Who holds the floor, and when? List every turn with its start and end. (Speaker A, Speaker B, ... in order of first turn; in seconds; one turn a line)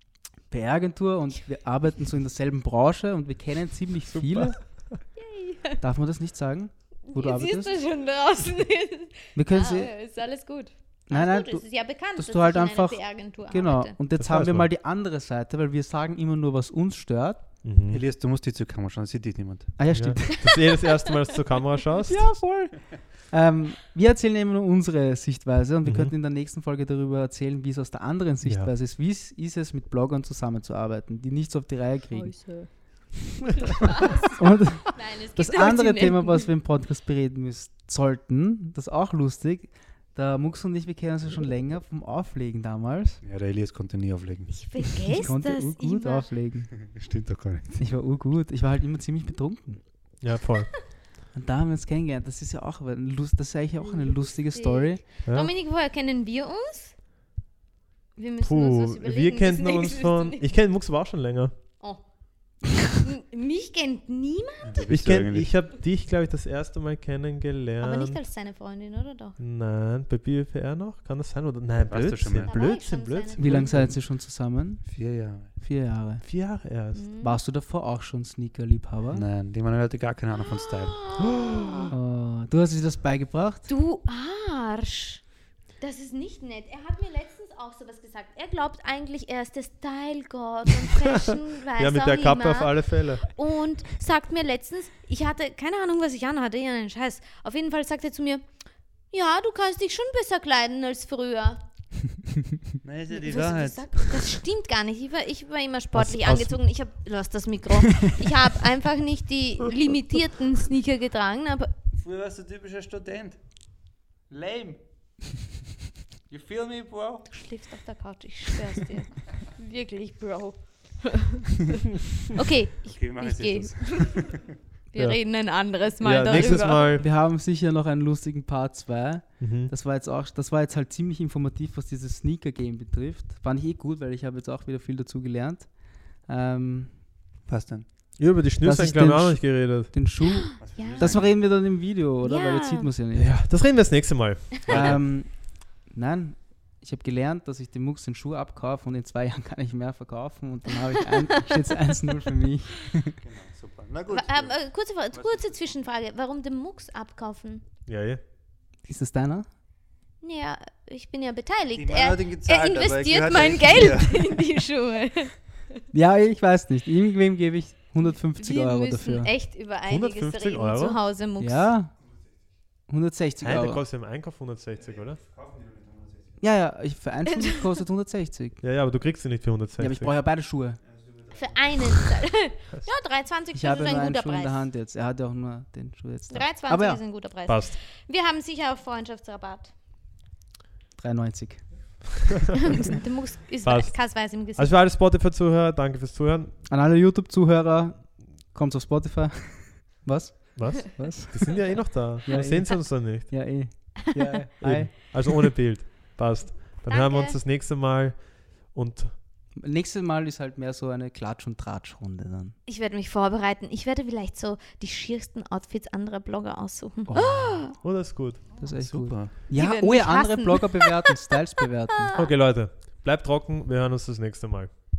Speaker A: 0.5-4.7
Speaker B: 4.1-5.0
Speaker C: 5.1-5.8
Speaker A: 5.8-7.8
Speaker C: 7.1-13.9
Speaker A: 9.3-9.9
Speaker A: 11.1-17.5
Speaker B: 14.2-14.7
Speaker B: 17.6-18.0
Speaker D: 17.9-19.8
Speaker A: 19.8-20.6
Speaker B: 19.9-22.3
Speaker A: 22.1-32.8
Speaker B: 25.8-26.1
Speaker B: 28.4-28.7
Speaker C: 32.1-33.1
Speaker C: 33.6-34.4
Speaker A: 34.4-43.2
Speaker C: 34.9-36.5
Speaker D: 43.2-44.9
Speaker C: 44.5-46.2
Speaker A: 45.1-46.8
Speaker D: 46.8-47.8
Speaker A: 47.8-50.2
Speaker B: 50.2-51.0
Speaker A: 51.3-55.0
Speaker C: 53.8-56.9
Speaker C: 58.1-60.4
Speaker B: 58.4-61.7
Speaker C: 61.8-62.1
Speaker C: 63.0-64.8
Speaker D: 64.6-65.5
Speaker B: 64.9-68.2
Speaker C: 67.8-69.4
Speaker B: 69.4-73.8
Speaker D: 71.8-72.6
Speaker C: 72.5-73.9
Speaker A: 73.3-74.8
Speaker D: 74.8-75.5
Speaker A: 75.6-76.2
Speaker B: 76.2-77.0
Speaker C: 76.9-77.4
Speaker A: 77.2-79.2
Speaker D: 79.1-81.1
Speaker C: 80.8-81.9
Speaker B: 81.4-81.9
Speaker A: 81.9-83.7
Speaker C: 83.7-85.2
Speaker C: 85.8-98.4
Speaker B: 91.7-93.4
Speaker C: 99.1-101.6
Speaker D: 102.8-104.1
Speaker C: 103.1-111.7
Speaker B: 106.0-106.5
Speaker D: 111.9-113.7
Speaker D: 114.3-114.8
Speaker D: 116.3-117.3
Speaker C: 117.3-121.8
Speaker C: 122.3-124.4
Speaker D: 122.8-124.4
Speaker C: 124.9-126.9
Speaker B: 124.9-125.2
Speaker B: 126.0-127.0
Speaker A: 126.3-135.7
Speaker B: 129.4-129.7
Speaker A: 136.2-136.9
Speaker D: 137.4-137.9
Speaker B: 138.2-139.9
Speaker A: 138.6-143.3
Speaker D: 140.6-141.3
Speaker C: 140.6-141.1
Speaker C: 142.2-142.9
Speaker B: 143.1-145.0
Speaker A: 144.7-153.2
Speaker D: 153.2-155.6
Speaker C: 154.1-157.6
Speaker B: 157.9-158.2
Speaker A: 158.8-159.4
Speaker C: 160.2-165.6
Speaker D: 161.8-164.3
Speaker A: 165.9-169.3
Speaker C: 168.0-171.7
Speaker B: 169.9-171.0
Speaker A: 171.4-171.9
Speaker A: 172.9-173.8
Speaker B: 173.4-175.2
Speaker D: 175.2-176.3
Speaker A: 176.4-178.6
Speaker B: 178.6-180.1
Speaker A: 179.8-180.8
Speaker D: 181.0-181.5
Speaker C: 181.3-184.6
Speaker A: 183.5-187.0
Speaker C: 186.3-189.7
Speaker B: 187.4-187.8
Speaker A: 191.0-192.0
Speaker C: 192.7-194.7
Speaker B: 193.6-196.6
Speaker A: 196.7-205.5
Speaker B: 200.5-203.4
Speaker B: 204.6-209.1
Speaker C: 206.8-207.4
Speaker A: 209.6-212.6
Speaker C: 212.7-217.7
Speaker A: 217.1-217.8
Speaker B: 217.8-218.4
Speaker D: 218.6-219.3
Speaker A: 218.6-222.1
Speaker C: 219.5-221.2
Speaker C: 221.9-222.3
Speaker B: 222.1-224.7